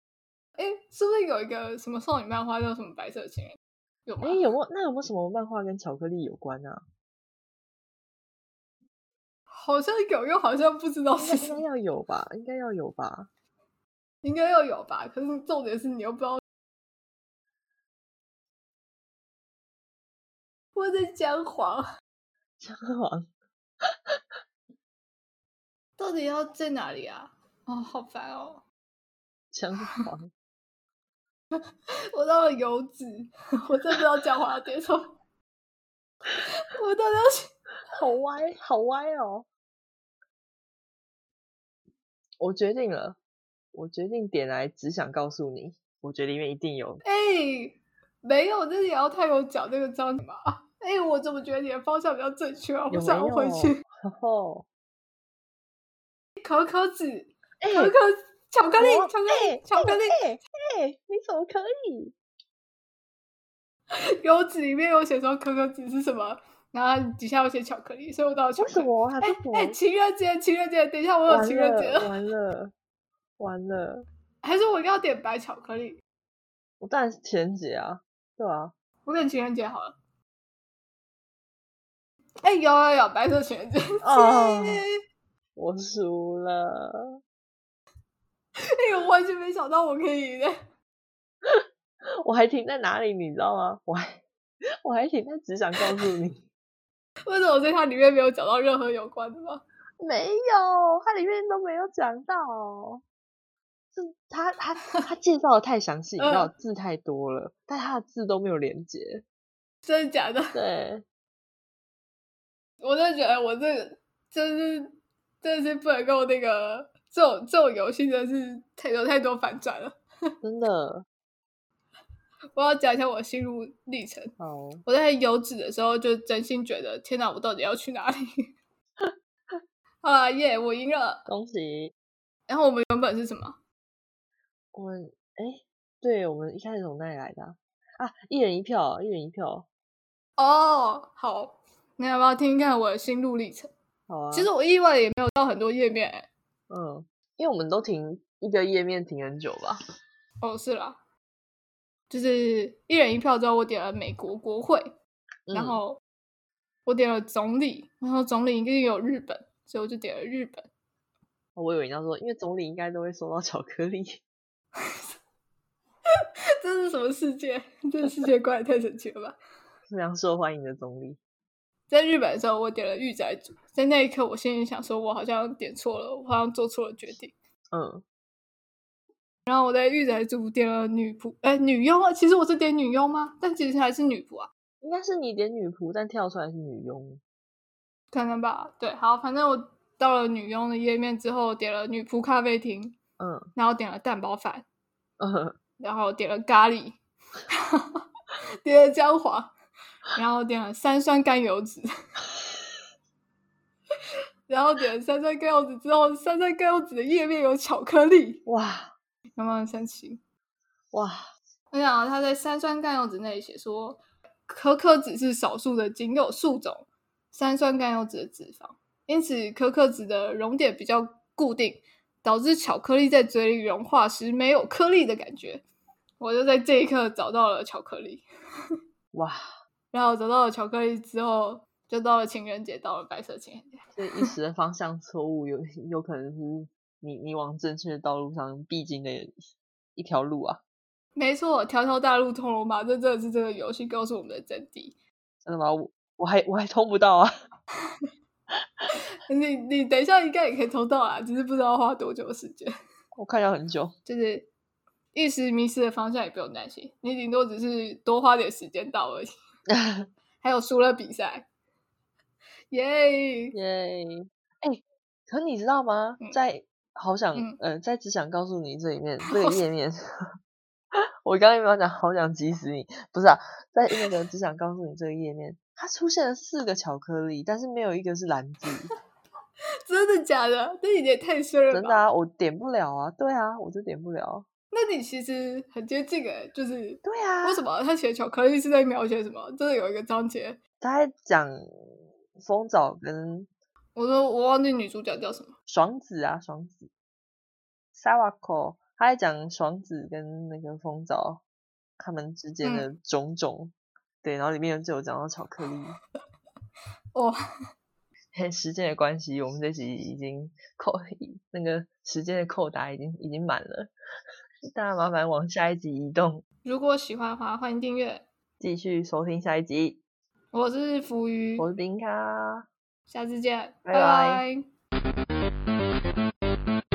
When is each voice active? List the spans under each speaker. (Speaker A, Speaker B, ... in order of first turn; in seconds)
Speaker A: 0.6-4.4, 9.5-11.6, 14.2-16.4, 20.8-21.9, 26.0-28.6, 32.0-35.2, 36.4-37.5, 47.0-53.8, 56.4-60.2, 63.9-72.1, 74.4-76.0, 79.0-79.9, 82.4-84.9, 88.6-90.6, 97.2-99.6, 106.2-106.5, 109.8-110.5, 112.8-120.0, 122.5-124.3, 124.8-128.2, 130.0-131.2, 132.5-133.6, 140.4-143.7, 144.3-146.3, 150.4-151.0, 152.1-154.9, 155.5-156.0, 156.8-160.7, 166.2-169.3, 171.9-177.3, 179.5-184.5, 188.1-192.9, 193.6-194.7, 195.8-196.9, 197.5-198.0, 198.6-199.5, 200.1-201.9, 204.5-208.4, 209.4-210.2, 211.7-225.6, 226.2-228.2, 229.9-234.3, 241.2-244.9, 249.2-252.7, 254.1-254.5, 255.1-259.3, 260.4-261.5, 262.7-263.6, 269.3-269.6, 279.9-282.0, 284.7-290.6, 293.9-295.5, 302.6-302.9, 316.6-318.2, 320.5-321.6, 323.1-324.6
Speaker B: 4.2-6.8, 11.2-13.3, 22.6-23.3, 23.9-24.2, 29.5-30.3, 37.9-39.5, 42.4-43.2, 43.7-47.0, 52.9-54.6, 57.6-58.0, 58.8-62.1, 68.6-69.8, 71.3-72.7, 73.4-74.0, 76.8-78.7, 84.0-84.8, 85.5-87.2, 91.4-94.2, 94.8-96.5, 100.0-103.0, 103.9-109.2, 110.5-111.0, 120.4-121.0, 124.4-124.8, 131.2-131.9, 134.7-139.7, 144.1-144.5, 146.7-149.8, 155.5-155.8, 161.6-164.2, 169.9-171.2, 177.7-178.0, 184.8-187.2, 193.2-193.5, 195.2-195.6, 208.4-208.9, 210.9-211.2, 229.1-229.4, 234.0-239.3, 239.9-240.6, 245.4-247.3, 253.1-253.9, 259.7-260.1, 263.5-270.0, 271.2-278.9, 281.7-284.5, 287.0-287.6, 290.8-291.6, 292.4-293.5, 295.7-296.9, 297.9-301.4, 302.0-306.0, 308.3-313.9, 314.7-316.4, 318.6-320.0, 321.6-322.7, 323.9-324.4